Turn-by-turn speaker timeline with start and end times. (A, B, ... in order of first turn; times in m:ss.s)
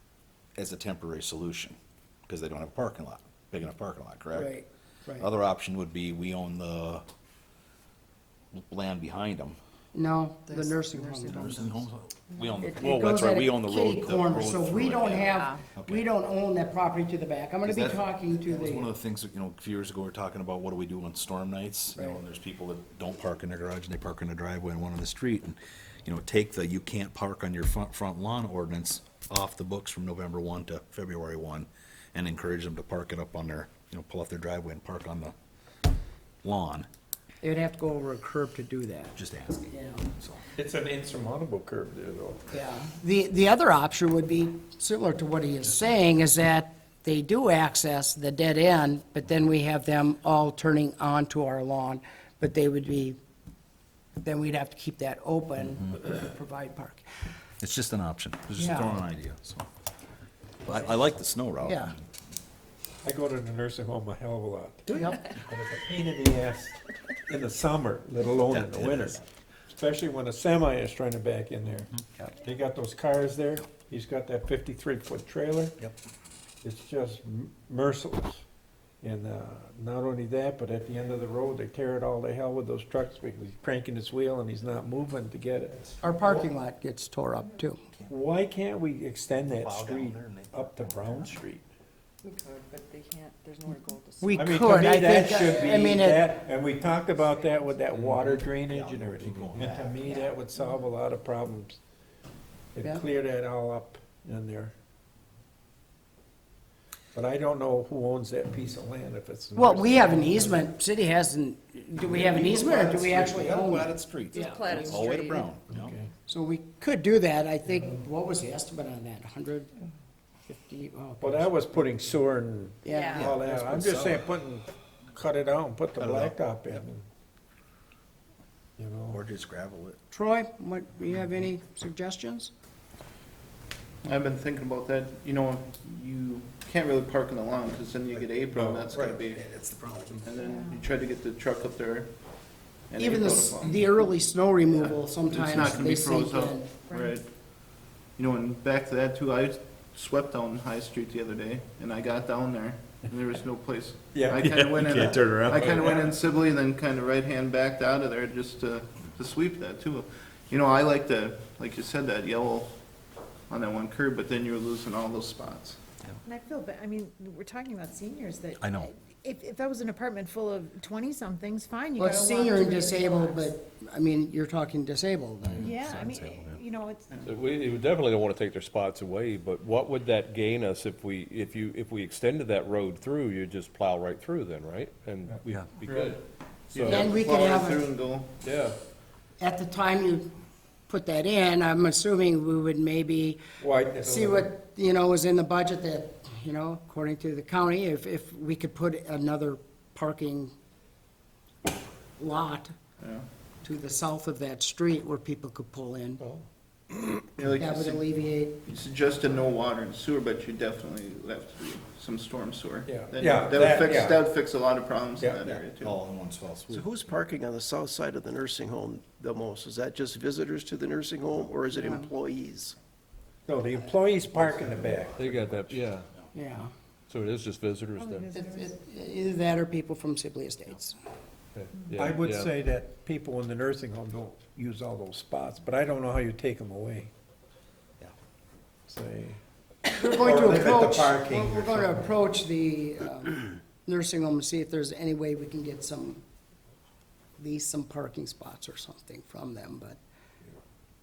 0:00.6-0:04.6 A
0:04.3-0:05.3 B
0:05.2-0:07.0 A
0:08.5-0:09.6 A
0:09.9-0:11.7 B
0:10.5-0:11.6 C
0:11.2-0:16.1 A
0:12.6-0:18.9 B
0:17.6-0:35.3 A
0:36.4-0:36.9 A
0:37.4-0:39.2 B
0:39.2-0:40.4 A
0:39.7-0:40.0 B
0:40.6-0:42.5 D
0:42.5-0:53.2 B
0:54.2-0:57.0 B
0:57.6-0:59.7 A
0:58.6-0:59.0 B
1:00.6-1:02.1 A
1:01.6-1:01.9 B
1:03.0-1:15.8 D
1:04.9-1:05.3 B
1:08.5-1:09.2 A
1:11.7-1:12.2 A
1:16.6-1:18.4 D
1:19.0-1:26.4 D
1:26.0-1:27.8 B
1:28.0-1:31.7 D
1:29.5-1:31.4 A
1:32.2-1:34.4 C
1:34.2-1:36.3 B
1:34.4-1:41.8 D
1:37.9-1:40.0 A
1:40.0-1:40.4 B
1:42.7-1:44.7 D
1:47.1-1:50.6 D
1:49.6-1:55.2 B
1:52.0-1:55.9 A
1:54.4-1:55.5 C
1:55.7-1:56.1 D
1:56.3-1:59.7 B
2:00.5-2:01.5 B
2:01.2-2:07.0 D
2:02.8-2:03.3 B
2:02.9-2:03.2 C
2:03.1-2:04.3 A
2:06.0-2:06.4 A
2:08.8-2:09.2 D
2:09.1-2:10.0 A
2:10.1-2:12.5 B
2:14.0-2:19.4 E
2:18.6-2:20.3 A
2:20.2-2:22.1 E
2:20.4-2:20.8 F
2:22.9-2:24.0 E
2:23.0-2:26.9 B
2:24.7-2:27.2 E
2:26.9-2:27.2 F
2:28.2-2:42.7 E
2:34.1-2:36.0 D
2:35.0-2:35.6 A
2:35.5-2:35.8 G
2:43.5-2:45.8 E
2:46.2-2:53.5 F
2:48.6-2:48.9 A
2:52.0-2:55.9 B
2:55.4-2:56.6 A
2:55.6-2:57.2 F
2:57.2-3:06.2 G
3:06.7-3:08.3 E
3:06.7-3:07.1 G
3:06.8-3:07.9 B
3:08.4-3:08.8 G
3:09.4-3:10.3 B
3:10.9-3:13.4 B
3:13.6-3:14.5 D
3:14.0-3:20.5 B
3:22.2-3:22.7 B
3:23.0-3:23.3 E
3:23.6-3:26.2 B
3:27.3-3:28.1 E
3:27.5-3:28.6 B
3:28.6-3:36.0 E
3:32.9-3:34.2 D
3:35.4-3:36.9 A
3:36.7-3:42.8 H
3:41.8-3:42.1 B
3:43.5-3:45.4 D
3:44.3-3:45.7 A
3:45.2-3:46.1 G
3:46.3-3:46.7 B
3:47.1-3:48.3 G
3:48.0-3:48.7 F
3:48.3-3:51.0 B
3:51.6-3:52.5 G
3:51.9-3:57.1 D
3:58.9-3:59.4 D
3:59.9-4:06.2 B
3:59.9-4:02.1 D
4:07.4-4:10.0 B